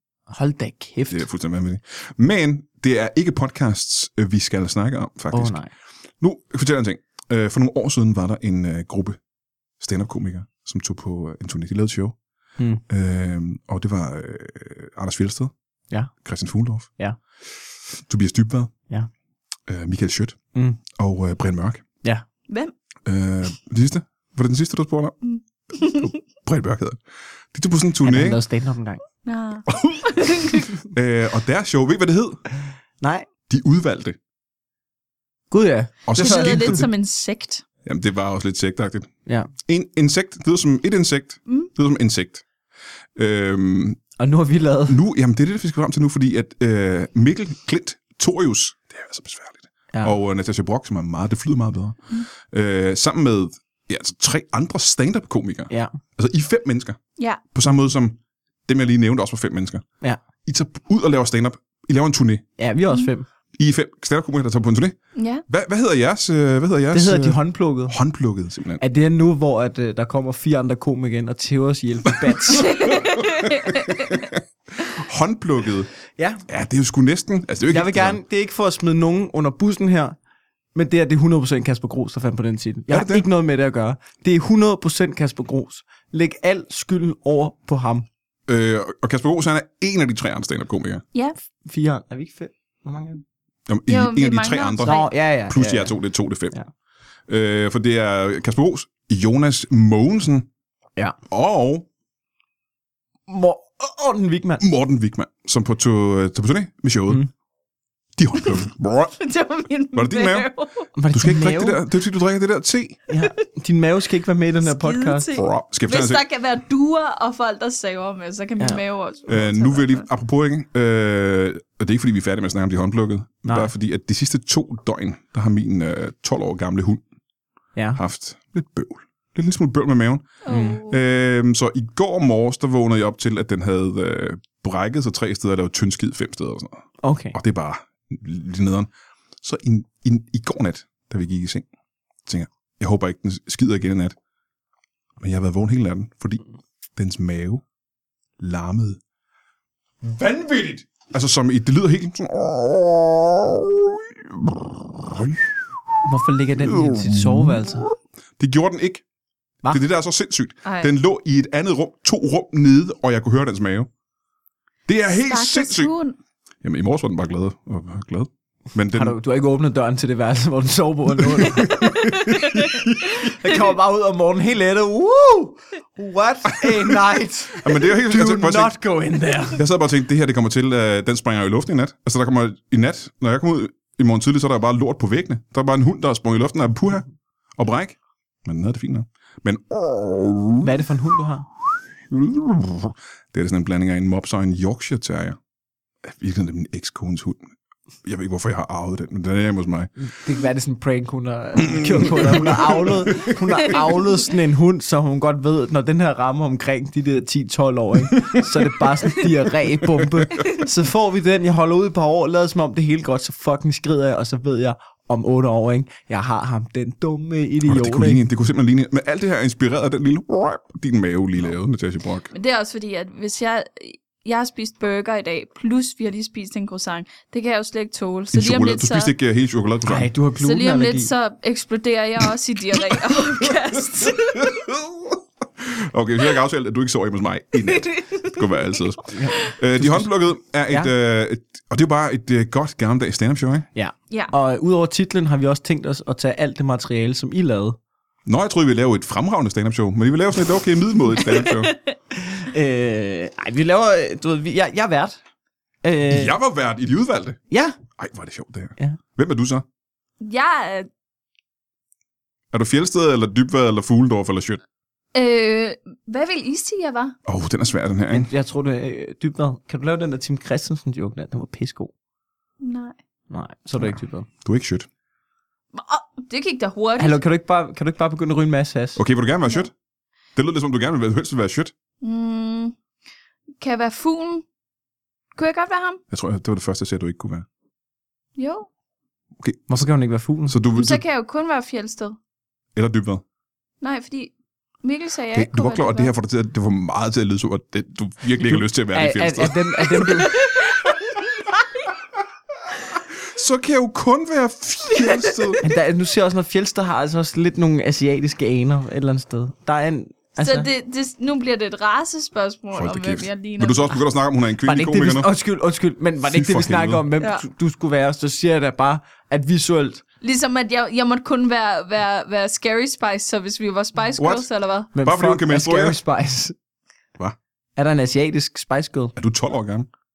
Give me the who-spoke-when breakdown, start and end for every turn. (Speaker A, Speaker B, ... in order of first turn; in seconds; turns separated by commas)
Speaker A: 0.3-1.3, Speaker B: 1.1-5.6, Speaker A: 5.3-5.7, Speaker B: 6.2-9.2, Speaker B: 9.8-12.2, Speaker A: 12.6-12.8, Speaker B: 12.8-15.5, Speaker B: 16.2-16.9, Speaker B: 18.1-18.7, Speaker B: 19.7-20.4, Speaker A: 20.5-20.8, Speaker B: 20.9-21.8, Speaker B: 23.1-25.2, Speaker C: 25.2-26.1, Speaker B: 25.8-27.0, Speaker B: 27.5-28.4, Speaker A: 28.0-29.0, Speaker C: 29.2-30.7, Speaker B: 30.5-32.4, Speaker A: 33.0-33.3, Speaker B: 33.5-34.2, Speaker A: 35.5-36.9, Speaker B: 36.0-36.9, Speaker C: 36.1-37.6, Speaker B: 37.8-42.4, Speaker B: 43.1-44.0, Speaker A: 44.2-45.0, Speaker B: 44.9-57.0, Speaker C: 57.2-57.4, Speaker B: 57.5-59.9, Speaker B: 60.4-62.5, Speaker A: 62.6-63.3, Speaker B: 63.6-65.0, Speaker C: 65.2-65.4, Speaker B: 65.5-68.8, Speaker A: 66.9-68.0, Speaker A: 68.8-72.9, Speaker C: 72.5-74.2, Speaker B: 72.6-75.9, Speaker A: 76.2-76.4, Speaker B: 76.5-78.2, Speaker A: 77.7-80.2, Speaker A: 80.7-88.1, Speaker B: 82.9-83.2, Speaker B: 88.5-91.0, Speaker A: 91.6-93.2, Speaker B: 93.7-96.5, Speaker C: 93.9-95.1, Speaker A: 94.8-96.0, Speaker B: 97.3-100.5, Speaker B: 101.3-101.8, Speaker A: 103.3-104.6, Speaker B: 104.6-107.2, Speaker B: 108.2-109.2, Speaker C: 109.2-110.9, Speaker B: 109.9-110.5, Speaker A: 111.0-111.8, Speaker B: 111.1-113.0, Speaker A: 113.1-115.3, Speaker C: 114.6-120.0, Speaker B: 115.3-116.2, Speaker B: 119.3-127.0, Speaker A: 123.5-123.7, Speaker A: 127.7-128.0, Speaker B: 127.9-138.9, Speaker C: 130.4-131.0, Speaker A: 130.5-130.8, Speaker A: 137.0-137.4, Speaker B: 139.4-141.7, Speaker B: 142.2-144.1, Speaker B: 145.2-146.4, Speaker B: 146.9-147.6, Speaker B: 148.4-149.0, Speaker B: 150.0-155.6, Speaker A: 156.0-157.8, Speaker B: 156.6-157.8, Speaker B: 158.4-159.0, Speaker B: 159.7-163.9, Speaker C: 160.6-160.9, Speaker B: 164.9-165.9, Speaker C: 165.1-166.2, Speaker B: 166.6-169.2, Speaker A: 168.9-172.1, Speaker B: 171.4-173.3, Speaker A: 173.1-179.6, Speaker B: 176.5-177.0, Speaker B: 177.5-178.8, Speaker B: 179.5-190.8, Speaker A: 190.6-191.5, Speaker B: 192.1-195.4, Speaker B: 196.0-197.4, Speaker B: 198.0-199.9, Speaker A: 200.0-218.2, Speaker B: 201.6-203.8, Speaker C: 203.6-203.9, Speaker B: 208.1-208.9, Speaker B: 209.9-210.5, Speaker B: 217.6-222.3, Speaker C: 222.3-229.1, Speaker B: 228.3-230.1, Speaker A: 229.8-231.1, Speaker C: 230.4-234.6, Speaker B: 234.0-243.7, Speaker C: 237.6-238.6, Speaker A: 239.1-240.1, Speaker A: 243.8-247.8, Speaker B: 248.2-251.7, Speaker C: 251.3-251.9, Speaker A: 252.1-255.2, Speaker A: 255.8-256.3, Speaker B: 256.1-257.4, Speaker A: 257.5-257.8, Speaker B: 257.9-259.6, Speaker C: 260.2-260.9, Speaker B: 262.5-264.6, Speaker C: 265.1-267.2, Speaker B: 267.2-268.3, Speaker A: 268.1-271.9, Speaker C: 272.6-272.9, Speaker A: 273.3-274.3, Speaker B: 273.8-274.9, Speaker C: 275.7-277.2, Speaker A: 277.0-279.0, Speaker B: 278.9-279.7, Speaker B: 280.4-281.7, Speaker C: 282.0-282.7, Speaker C: 283.6-284.4, Speaker C: 285.4-286.0, Speaker B: 286.1-287.4, Speaker C: 288.4-288.7, Speaker B: 289.4-289.9, Speaker A: 289.7-290.6, Speaker B: 290.4-291.0, Speaker C: 290.7-292.2, Speaker B: 292.8-293.2, Speaker C: 293.8-296.1, Speaker B: 295.3-300.3, Speaker A: 298.4-300.4, Speaker C: 300.3-300.8, Speaker B: 303.2-305.6, Speaker C: 305.0-305.5, Speaker A: 305.6-310.7, Speaker C: 310.4-314.0, Speaker B: 312.7-315.3, Speaker A: 314.6-320.0, Speaker B: 316.2-317.1, Speaker C: 317.2-317.4, Speaker C: 320.2-324.9, Speaker B: 324.2-324.4, Speaker A: 324.9-326.5, Speaker B: 325.0-326.0, Speaker A: 327.8-329.1, Speaker B: 329.1-329.9